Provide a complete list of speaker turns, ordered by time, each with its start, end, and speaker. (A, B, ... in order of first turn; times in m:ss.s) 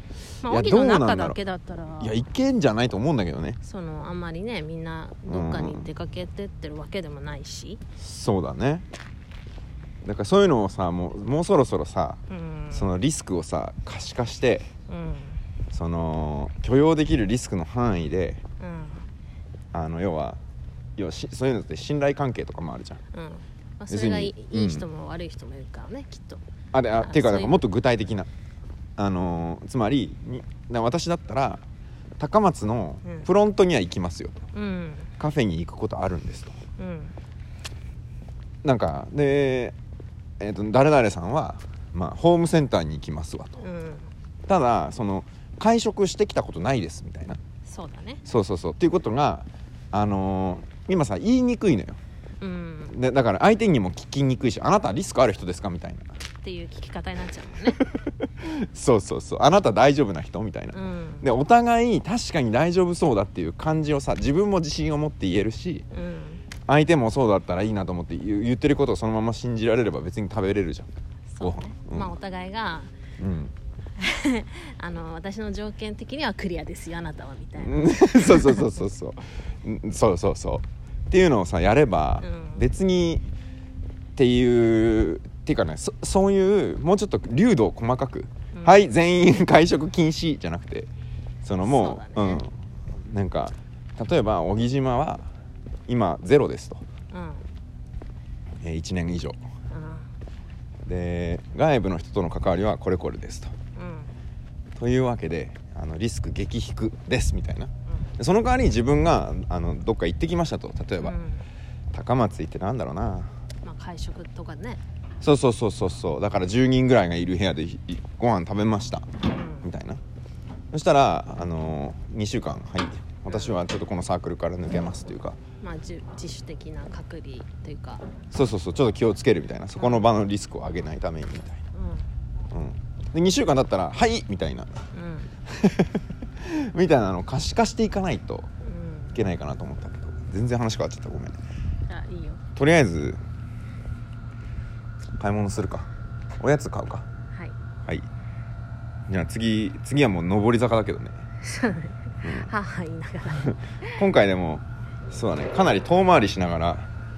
0:00.4-0:02.2 A
0:00.4-0:01.4 B
0:02.0-0:03.6 B
0:03.6-0:07.8 A
0:05.3-0:05.9 B
0:08.0-0:08.9 B
0:10.0-0:14.7 B
0:12.3-0:12.9 A
0:14.9-0:15.4 A
0:15.7-0:18.4 B
0:18.6-0:19.0 A
0:19.7-0:20.4 B
0:21.0-0:23.0 B
0:23.1-0:26.4 A
0:23.9-0:24.9 B
0:26.7-0:28.3 B
0:27.0-0:27.6 A
0:29.0-0:31.6 B
0:32.2-0:34.4 B
0:33.0-0:33.3 A
0:34.5-0:35.1 A
0:35.2-0:36.6 B
0:36.8-0:37.2 A
0:38.6-0:39.8 B
0:40.4-0:43.6 B
0:43.6-0:44.1 A
0:44.5-0:47.4 B
0:47.7-0:48.2 A
0:48.3-0:52.0 B
0:52.4-0:53.0 A
0:52.9-0:56.1 B
0:56.4-0:57.8 A
0:57.9-1:05.8 B
1:00.7-1:01.3 A
1:05.9-1:06.4 A
1:06.7-1:10.9 B
1:11.3-1:12.9 A
1:11.4-1:12.1 B
1:13.2-1:13.5 B
1:14.0-1:18.8 A
1:17.6-1:23.2 B
1:22.2-1:22.6 A
1:24.2-1:30.9 B
1:28.5-1:28.8 A
1:31.4-1:35.3 B
1:31.6-1:32.5 A
1:35.9-1:36.8 B
1:37.1-1:37.5 A
1:38.6-1:39.4 B
1:39.7-1:40.1 A
1:40.8-1:43.5 B
1:43.8-1:44.1 A
1:44.8-1:51.2 B
1:51.0-1:51.4 A
1:51.9-1:53.3 B
1:53.6-1:54.8 A
1:55.2-1:59.1 B
1:59.2-1:59.7 A
1:59.6-2:00.0 B
2:00.7-2:05.4 B
2:03.3-2:03.6 A
2:05.6-2:08.1 A
2:08.3-2:11.6 B
2:09.8-2:10.1 A
2:11.7-2:12.1 A
2:12.5-2:14.9 B
2:14.9-2:15.3 A
2:15.5-2:18.5 B
2:18.6-2:19.2 A
2:19.2-2:21.4 B
2:21.9-2:22.4 A
2:22.6-2:23.2 B
2:25.2-2:27.1 B
2:29.1-2:31.2 B
2:31.4-2:33.9 A
2:32.2-2:32.5 B
2:33.3-2:36.9 B